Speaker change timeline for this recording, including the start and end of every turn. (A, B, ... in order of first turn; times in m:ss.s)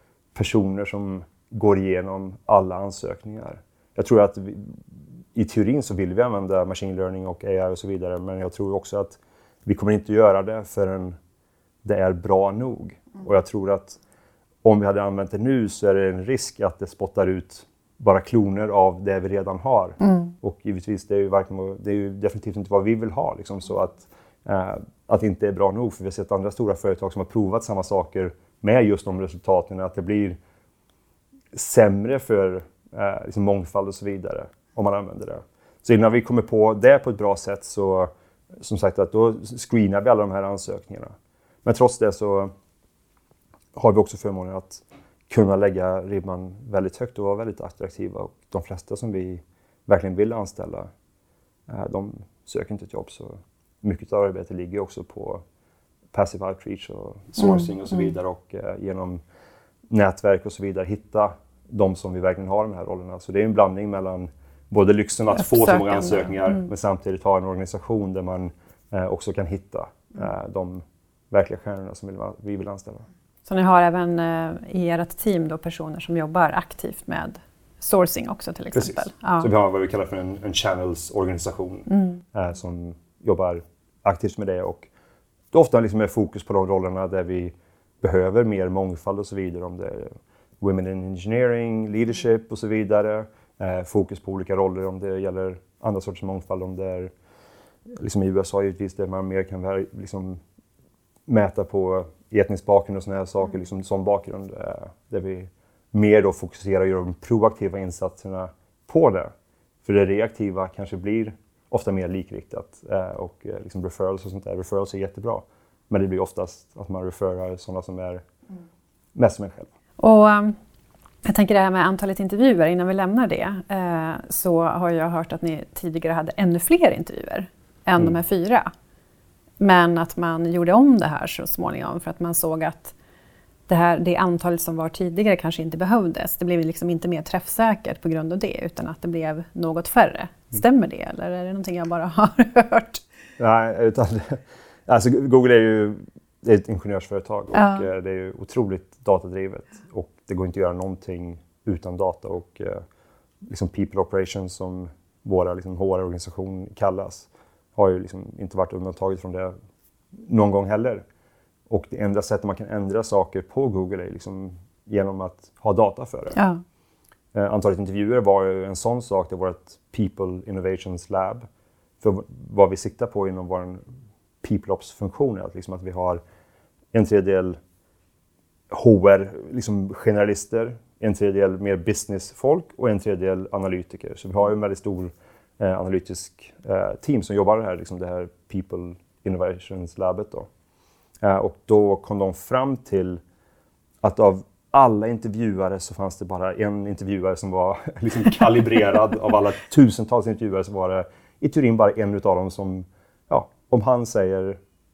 0:00.4-0:11.2 A
0:11.8-0:14.0 A
0:14.6-0:30.4 A
0:20.0-0:20.3 B
0:31.5-0:41.1 A
0:41.6-0:42.5 A
0:43.8-0:50.9 A
0:51.7-0:55.4 A
0:56.1-0:59.2 A
0:59.9-1:13.1 A
1:05.4-1:06.6 B
1:13.5-1:19.5 B
1:18.7-1:24.9 A
1:21.9-1:22.2 B
1:25.5-1:37.1 A
1:38.0-1:40.4 A
1:41.3-1:49.3 A
1:49.8-1:58.2 A
1:59.2-1:59.7 A
2:00.0-2:00.6 B
2:01.2-2:08.7 B
2:09.6-2:13.0 B
2:13.7-2:23.0 B
2:23.4-2:32.8 A
2:27.5-2:27.9 B
2:33.4-2:39.5 A
2:40.2-2:41.0 A
2:41.7-2:46.4 A
2:46.4-2:46.6 B
2:47.3-2:51.4 A
2:52.0-2:53.8 A
2:54.4-2:56.2 A
2:56.9-2:57.6 A
2:58.7-3:10.5 A
3:11.2-3:13.2 A
3:14.0-3:24.6 A